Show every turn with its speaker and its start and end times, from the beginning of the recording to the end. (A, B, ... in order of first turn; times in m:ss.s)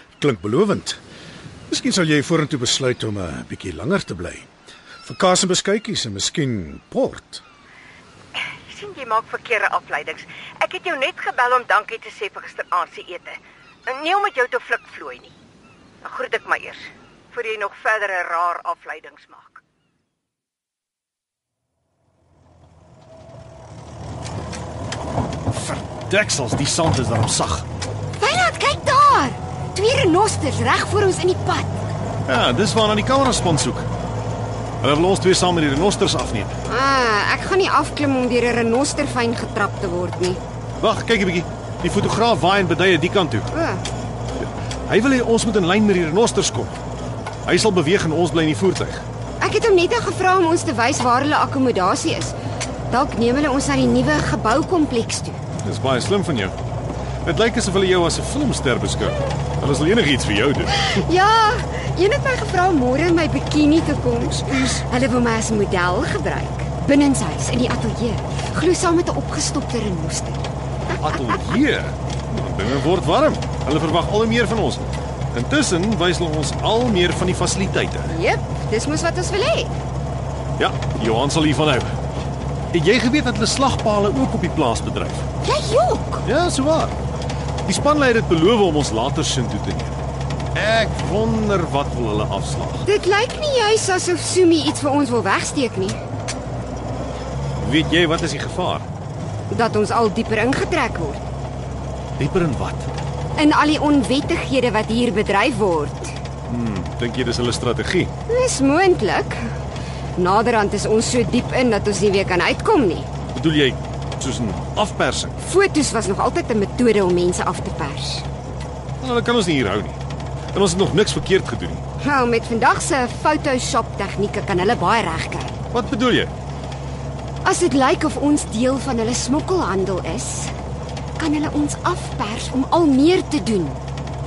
0:00.2-0:01.0 A
0:01.7-0:04.5 A
0:05.0-0:07.4 A
0:08.7-0:15.3 B
0:08.9-0:10.0 C
0:10.7-0:13.1 C
0:14.8-0:15.2 C
0:16.0-0:16.8 B
0:16.1-0:16.7 C
0:17.3-0:19.6 B
0:17.4-0:18.8 C
0:25.5-0:27.7 D
0:28.2-0:31.8 C
0:32.3-0:33.9 D
0:34.8-0:36.6 D
0:36.7-0:40.4 C
0:40.8-0:43.5 D
0:43.5-0:43.8 C
0:44.4-0:46.8 D
0:47.5-0:49.1 D
0:49.4-0:52.4 C
0:52.9-0:55.4 C
0:55.6-0:56.6 D
0:57.2-1:01.0 D
1:00.7-1:10.5 C
1:04.2-1:04.8 D
1:11.0-1:18.1 D
1:18.1-1:19.8 C
1:20.6-1:22.0 D
1:22.7-1:25.3 D
1:25.4-1:26.2 C
1:26.2-1:27.0 D
1:27.6-1:30.0 D
1:30.6-1:32.9 D
1:32.8-1:36.0 C
1:37.6-1:38.9 D
1:39.5-1:41.3 C
1:42.2-1:43.0 D
1:43.4-1:46.2 C
1:46.5-1:48.1 D
1:48.3-1:49.4 C
1:50.2-1:53.1 C
1:53.3-1:55.4 D
1:55.4-1:58.3 C
1:59.0-2:00.0 D
2:00.5-2:01.8 D
2:02.0-2:05.6 C
2:05.7-2:06.3 D
2:07.4-2:10.5 C
2:11.2-2:13.8 C